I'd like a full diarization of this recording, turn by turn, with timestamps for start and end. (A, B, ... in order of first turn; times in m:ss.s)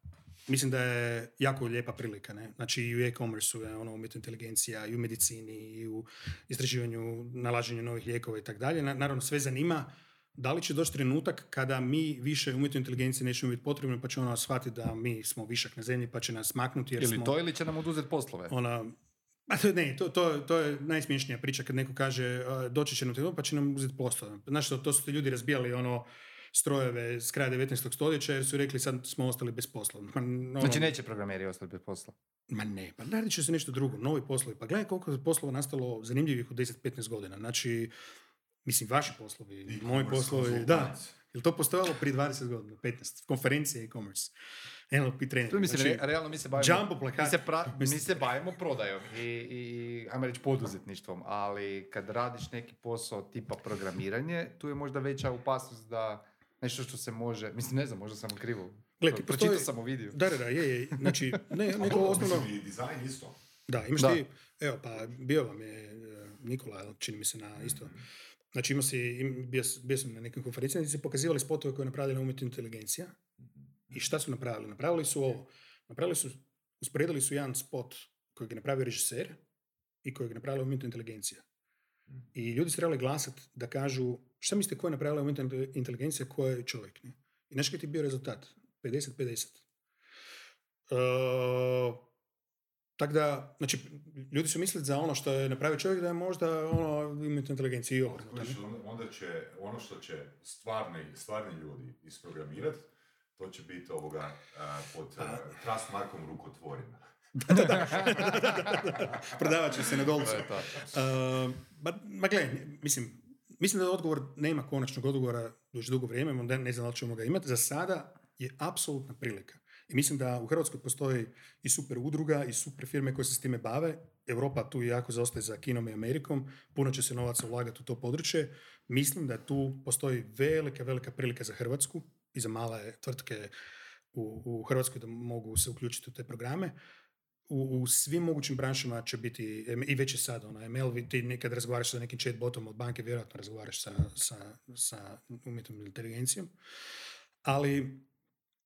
0:00.5-0:17.4 A
0:17.0-0:18.6 B
0:18.5-0:19.0 A
0:19.5-0:30.9 A
0:30.6-0:32.2 B
0:32.5-0:37.9 A
0:38.6-0:44.3 A
0:39.7-0:41.1 C
0:44.9-0:48.2 A
0:45.5-1:00.2 B
0:59.0-1:02.5 A
1:01.8-1:03.4 C
1:03.7-1:08.0 A
1:08.5-1:13.2 A
1:13.9-1:19.4 A
1:20.0-1:21.4 A
1:22.3-1:29.6 A
1:30.9-1:32.0 A
1:33.0-1:38.6 A
1:38.1-1:47.0 C
1:47.4-2:13.5 A
1:50.2-1:50.8 B
2:14.1-2:16.8 A
2:17.5-2:26.5 A
2:27.4-2:28.1 A